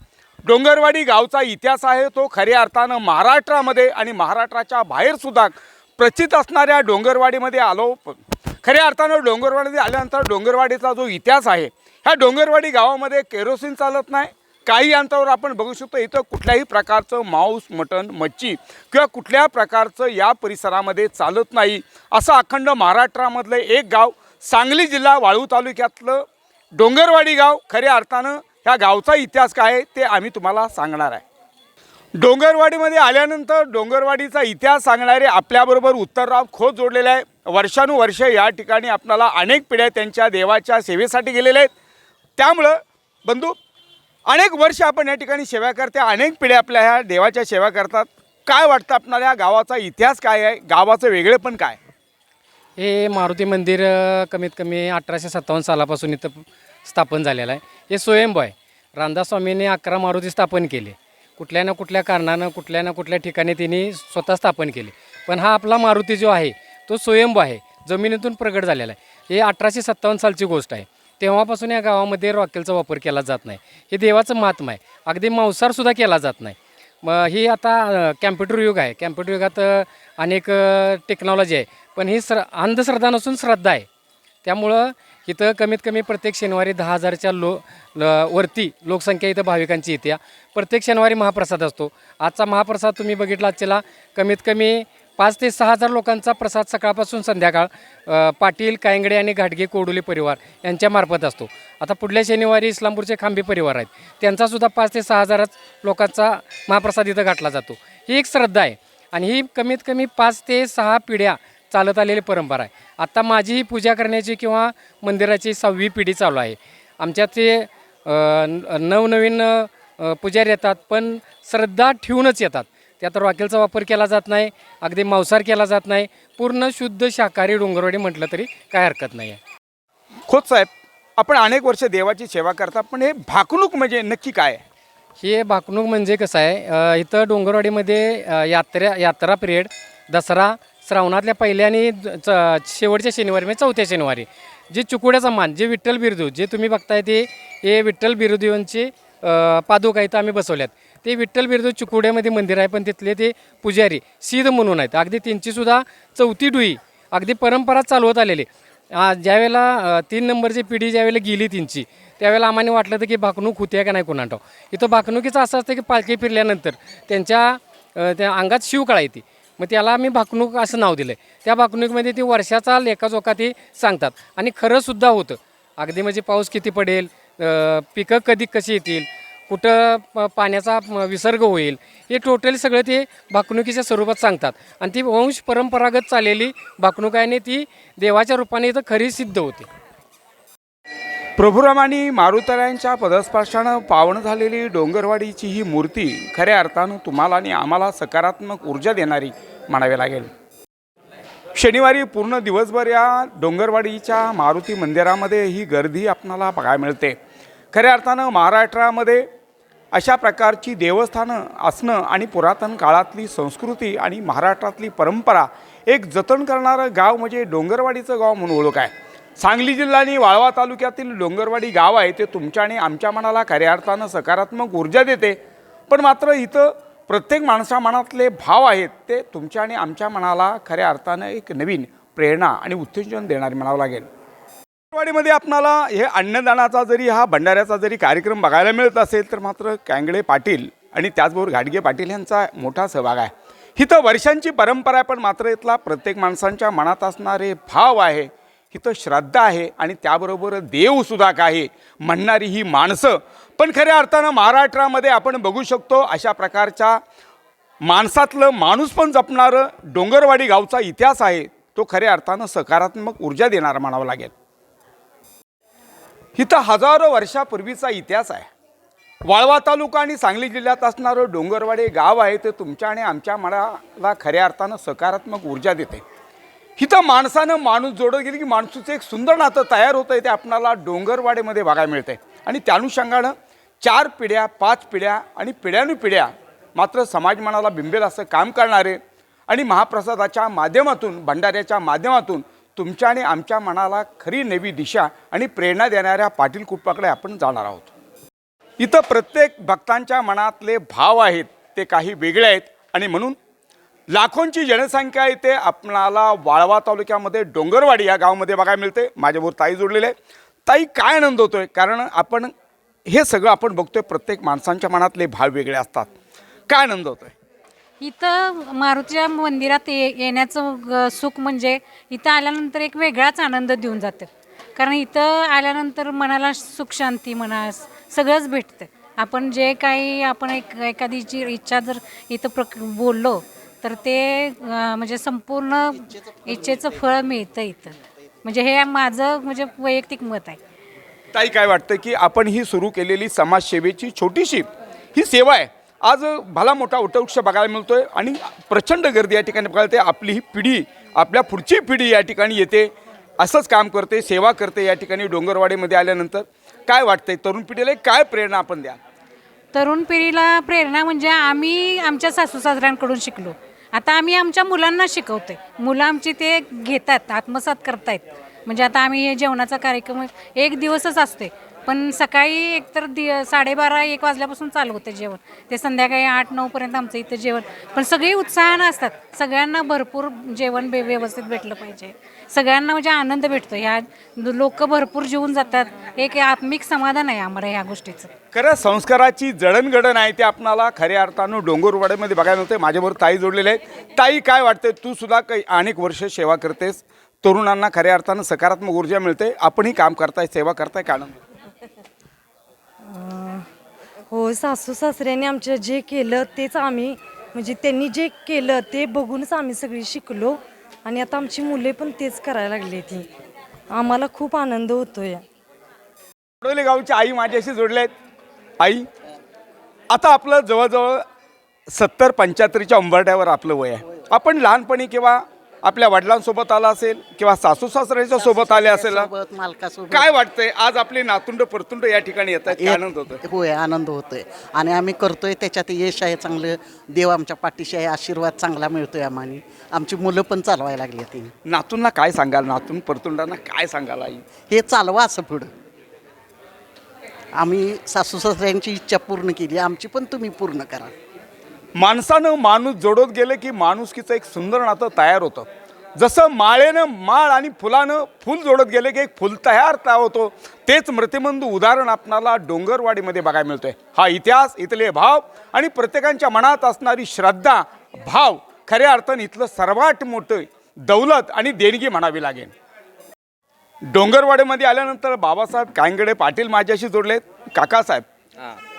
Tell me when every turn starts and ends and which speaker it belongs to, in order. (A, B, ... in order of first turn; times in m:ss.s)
0:00.5-0:26.2 A
0:26.8-0:31.2 A
0:32.2-0:41.7 A
0:42.4-0:43.6 A
0:44.3-0:51.8 A
0:52.8-1:23.9 B
1:24.4-2:09.4 B
2:10.3-2:14.6 A
2:15.2-3:09.7 B
3:11.4-3:20.3 A
3:21.6-3:27.2 A
3:27.7-3:29.2 A
3:29.9-3:45.4 A
3:45.9-3:54.1 A
3:54.9-4:17.0 A
4:17.9-4:24.3 A
4:26.4-4:28.5 A
4:29.2-4:36.0 A
4:36.8-4:49.0 A
4:49.5-4:57.9 A
4:58.8-5:03.4 A
5:04.1-5:10.1 A
5:10.6-5:12.5 A
5:13.1-5:16.1 A
5:16.7-5:17.3 A
5:18.0-5:40.6 C
5:41.3-5:59.0 A
5:59.7-6:28.3 C
6:28.5-6:41.4 A
6:43.1-6:43.6 D
6:44.3-6:53.3 D
6:53.9-6:55.4 D
6:56.6-6:58.1 A
7:00.1-7:01.2 A
7:01.9-7:09.3 A
7:08.3-7:10.3 E
7:10.1-7:13.4 A
7:12.7-7:21.5 E
7:21.7-7:24.4 A
7:24.7-7:25.7 E
7:27.6-7:31.1 E
7:32.0-7:52.7 A
7:54.1-7:58.2 A